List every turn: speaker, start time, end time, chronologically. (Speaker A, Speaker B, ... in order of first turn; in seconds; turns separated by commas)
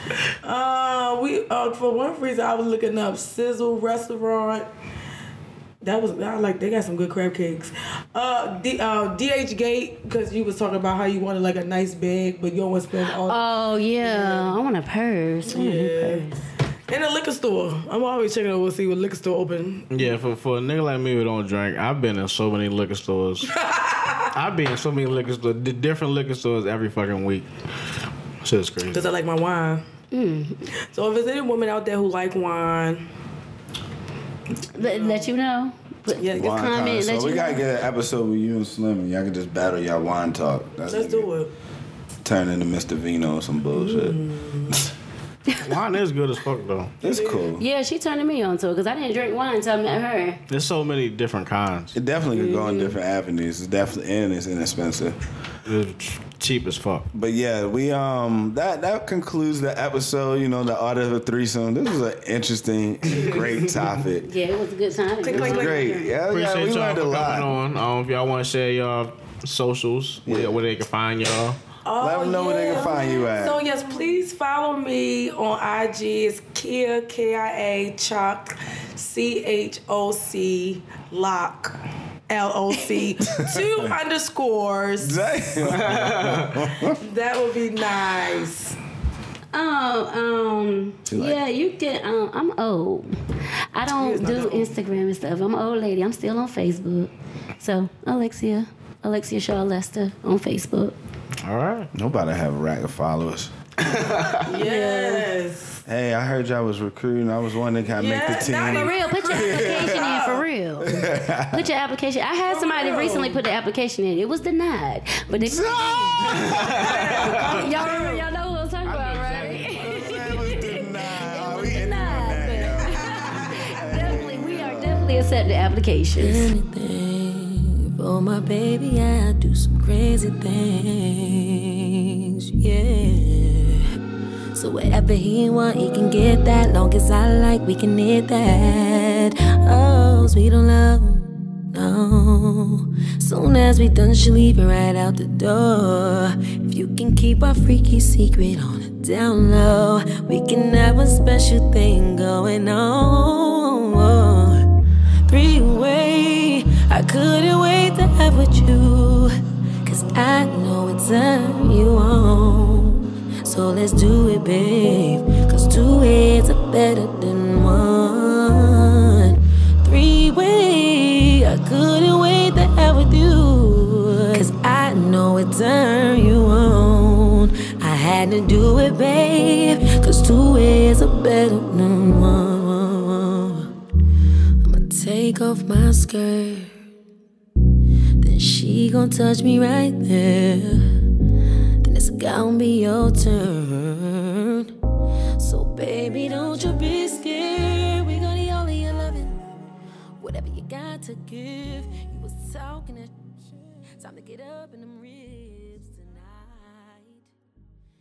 Speaker A: 0.4-4.7, Speaker A: 5.8-13.4, Speaker B: 13.2-16.4, Speaker A: 14.0-14.5, Speaker A: 15.5-16.3, Speaker A: 16.9-20.1, Speaker C: 19.9-23.5, Speaker A: 23.6-24.3, Speaker C: 24.3-27.5, Speaker C: 28.4-29.1, Speaker A: 28.9-29.8, Speaker B: 30.1-30.6, Speaker A: 30.9-33.1, Speaker B: 34.7-37.6, Speaker A: 34.8-35.3, Speaker D: 36.2-41.4, Speaker A: 40.9-41.5, Speaker D: 42.2-44.2, Speaker A: 43.7-44.9, Speaker C: 45.6-46.9, Speaker D: 47.0-47.6, Speaker A: 47.0-47.4, Speaker B: 47.6-50.4, Speaker C: 50.5-52.0, Speaker D: 51.9-55.2, Speaker B: 52.3-53.0, Speaker C: 55.6-57.1, Speaker D: 57.1-64.3, Speaker A: 63.1-63.5, Speaker B: 64.2-66.2, Speaker A: 65.2-65.9, Speaker D: 65.3-67.6, Speaker C: 66.3-71.6, Speaker D: 70.3-70.6, Speaker A: 71.8-81.8, Speaker D: 72.0-73.6, Speaker A: 82.3-85.2, Speaker D: 83.3-83.9, Speaker D: 85.0-87.0, Speaker C: 85.7-86.6, Speaker A: 86.9-88.8, Speaker B: 89.5-93.1, Speaker D: 91.1-91.4, Speaker B: 93.7-100.9, Speaker A: 94.0-94.7, Speaker C: 101.4-101.9, Speaker D: 101.9-103.5, Speaker C: 103.8-104.4, Speaker A: 104.4-105.8, Speaker B: 104.5-105.3, Speaker D: 105.8-110.1, Speaker A: 107.9-110.5, Speaker B: 108.6-111.0, Speaker D: 110.8-111.7, Speaker B: 111.5-116.5, Speaker A: 112.5-113.4, Speaker D: 115.3-116.9, Speaker C: 116.3-117.7, Speaker A: 116.7-118.3, Speaker B: 117.2-126.5, Speaker C: 118.8-119.9, Speaker D: 119.7-125.0, Speaker E: 126.2-133.8, Speaker E: 134.5-154.7, Speaker E: 155.3-183.7, Speaker E: 184.6-186.7, Speaker E: 188.2-190.9, Speaker E: 191.8-194.7, Speaker E: 195.4-199.4, Speaker E: 200.2-203.2, Speaker E: 204.0-207.3